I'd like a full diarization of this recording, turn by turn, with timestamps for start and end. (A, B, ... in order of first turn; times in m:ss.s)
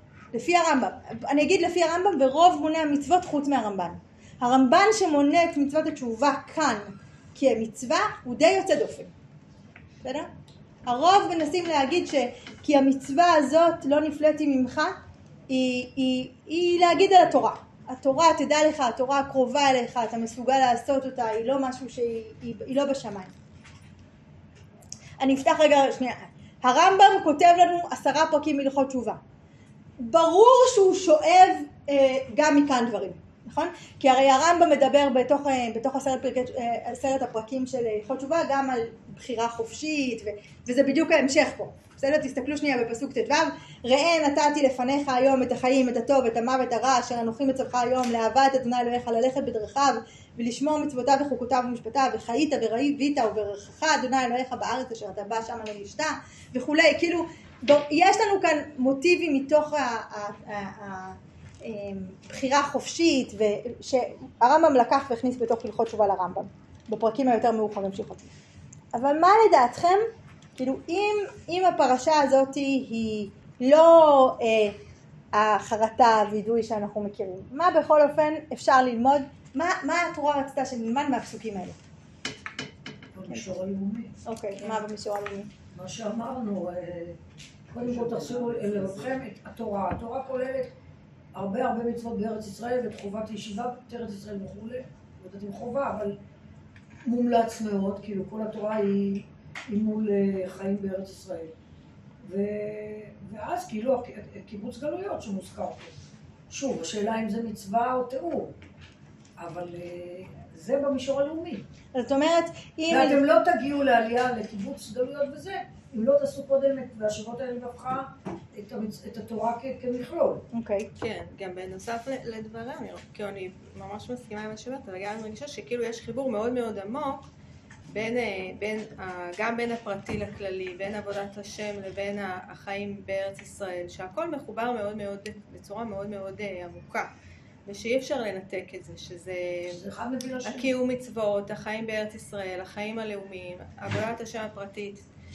0:00.3-0:09.1 A
0:10.9-0:14.9 A
0:15.5-0:23.3 A
0:25.2-0:29.2 A
0:30.0-1:08.3 A
1:08.9-1:10.0 A
1:10.6-1:14.8 A
1:15.3-1:21.8 A
1:23.1-1:24.8 B
1:24.3-1:25.5 A
1:25.7-1:27.2 B
1:27.7-1:30.7 B
1:31.3-1:36.2 B
1:37.0-1:41.5 B
1:42.2-1:46.0 B
1:46.5-1:48.6 B
1:49.4-1:51.6 B
1:51.9-1:53.2 A
1:52.9-2:00.5 B
2:00.5-2:00.9 A
2:01.0-2:07.3 C
2:07.9-2:17.1 C
2:17.7-2:19.8 C
2:19.7-2:20.7 B
2:20.4-2:25.0 C